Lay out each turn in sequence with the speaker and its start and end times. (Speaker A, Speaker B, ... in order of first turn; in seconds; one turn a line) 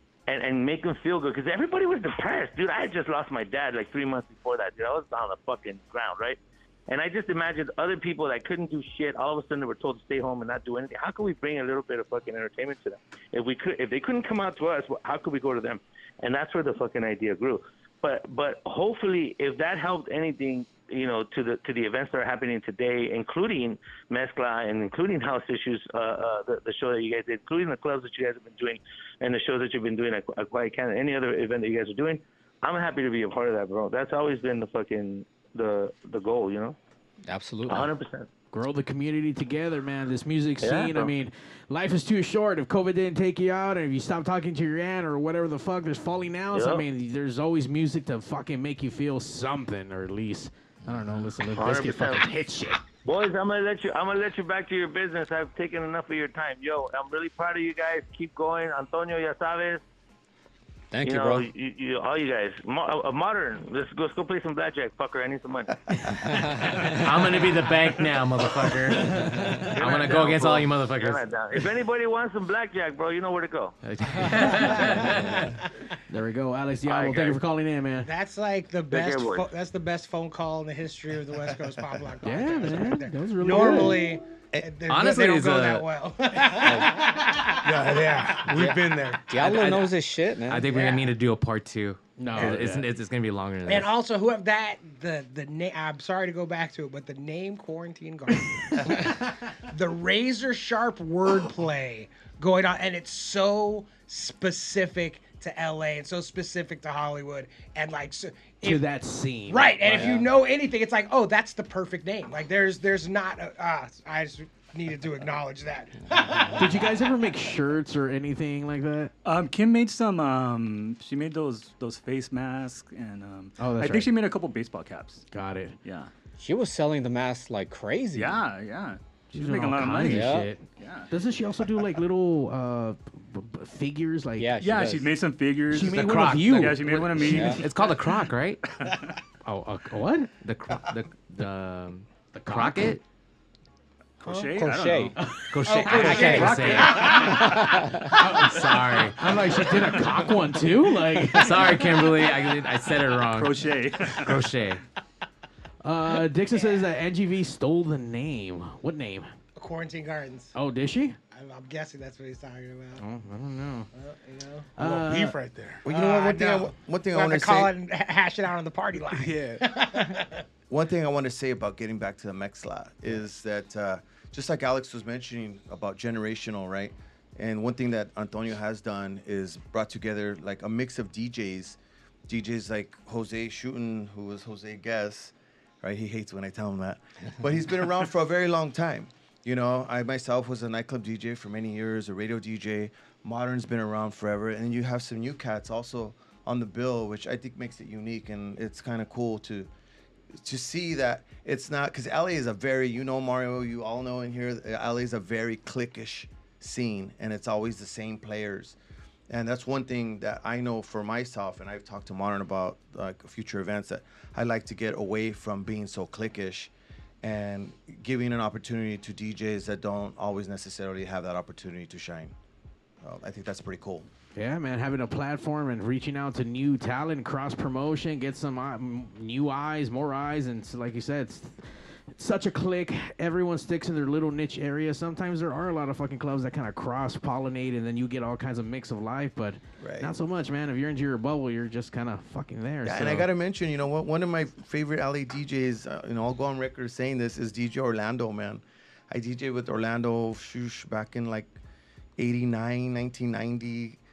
Speaker A: 0.3-36.8
Speaker B: 37.3-37.9
Speaker A: 37.7-38.3
Speaker C: 38.5-52.9
Speaker A: 40.6-41.1
Speaker A: 46.5-46.9
Speaker B: 50.9-51.3
Speaker A: 51.6-52.3
Speaker A: 53.0-59.8
Speaker B: 60.9-61.5
Speaker A: 61.0-66.1
Speaker D: 66.1-71.2
Speaker B: 66.2-66.9
Speaker A: 69.6-73.8
Speaker D: 73.9-75.6
Speaker C: 74.0-74.4
Speaker C: 76.1-78.1
Speaker A: 76.9-77.4
Speaker E: 78.0-88.2
Speaker A: 78.9-79.5
Speaker C: 82.2-84.0
Speaker D: 84.9-85.9
Speaker B: 86.6-87.0
Speaker F: 87.6-89.9
Speaker B: 88.5-90.7
Speaker D: 90.5-93.9
Speaker E: 90.7-91.1
Speaker C: 92.2-92.9
Speaker E: 93.7-108.8
Speaker C: 108.6-110.2
Speaker E: 109.5-117.2
Speaker B: 109.9-110.3
Speaker B: 116.1-116.6
Speaker C: 116.6-119.1
Speaker G: 119.2-125.2
Speaker C: 123.6-124.1
Speaker C: 125.3-125.8
Speaker G: 125.8-126.1
Speaker B: 126.4-128.4
Speaker G: 128.2-131.1
Speaker C: 129.3-134.5
Speaker B: 130.1-130.5
Speaker B: 134.4-135.1
Speaker G: 134.6-137.9
Speaker C: 135.7-137.7
Speaker D: 135.9-136.7
Speaker B: 137.2-137.6
Speaker D: 137.3-138.7
Speaker G: 138.8-139.2
Speaker C: 139.4-140.3
Speaker D: 140.4-143.0
Speaker C: 142.3-143.0
Speaker G: 144.2-145.2
Speaker E: 144.3-144.7
Speaker B: 144.3-145.1
Speaker C: 145.2-152.0
Speaker D: 145.5-147.5
Speaker E: 145.6-147.9
Speaker G: 145.8-147.2
Speaker B: 147.2-148.2
Speaker D: 148.1-149.4
Speaker D: 151.3-154.8
Speaker G: 153.3-154.4
Speaker C: 155.8-159.3
Speaker E: 156.6-156.8
Speaker E: 159.6-160.5
Speaker C: 160.6-161.2
Speaker E: 161.3-163.0
Speaker C: 163.0-163.9
Speaker E: 163.9-164.7
Speaker C: 164.8-165.4
Speaker F: 164.8-165.8
Speaker H: 165.8-167.7
Speaker E: 165.9-170.4
Speaker F: 169.1-169.8
Speaker H: 170.7-199.7
Speaker H: 200.3-208.8
Speaker H: 209.3-216.7
Speaker H: 217.2-222.3
Speaker H: 223.0-224.1
Speaker C: 224.4-243.3
Speaker H: 239.8-240.1
Speaker H: 242.8-251.6
Speaker H: 252.2-254.0